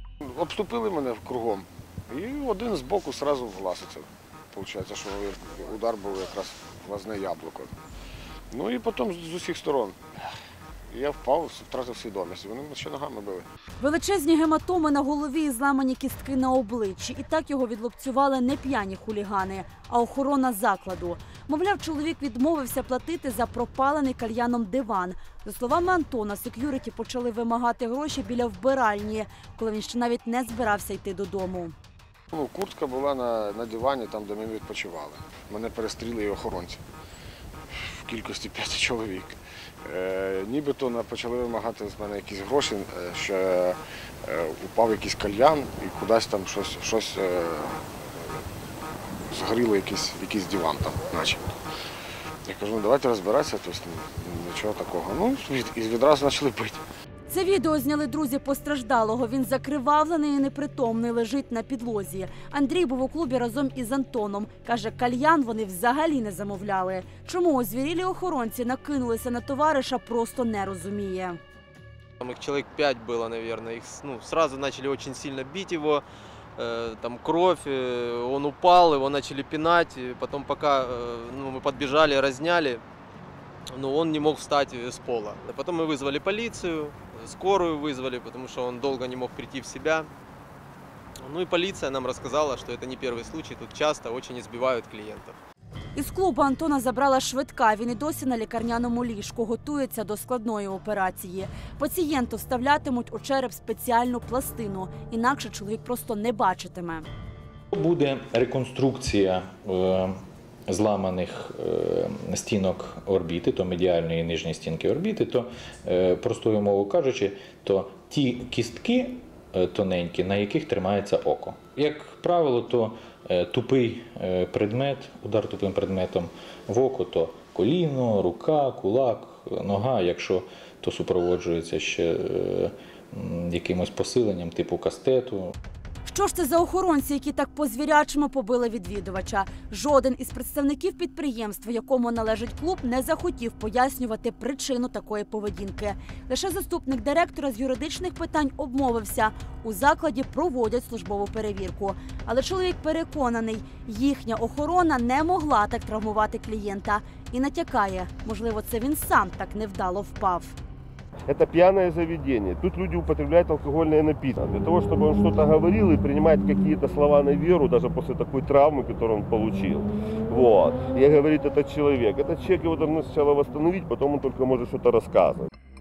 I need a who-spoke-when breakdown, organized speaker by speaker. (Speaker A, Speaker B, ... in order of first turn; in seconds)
Speaker A: 0.2-7.7, 8.5-10.0, 10.9-13.4, 32.3-36.8, 37.7-47.8, 49.3-51.4, 52.5-56.8
Speaker B: 13.8-31.7, 57.3-71.4, 96.0-107.0, 136.0-160.6
Speaker C: 72.2-76.0, 76.6-82.8, 83.7-90.1, 91.2-95.3
Speaker D: 107.7-110.2, 110.7-135.5
Speaker E: 161.3-175.5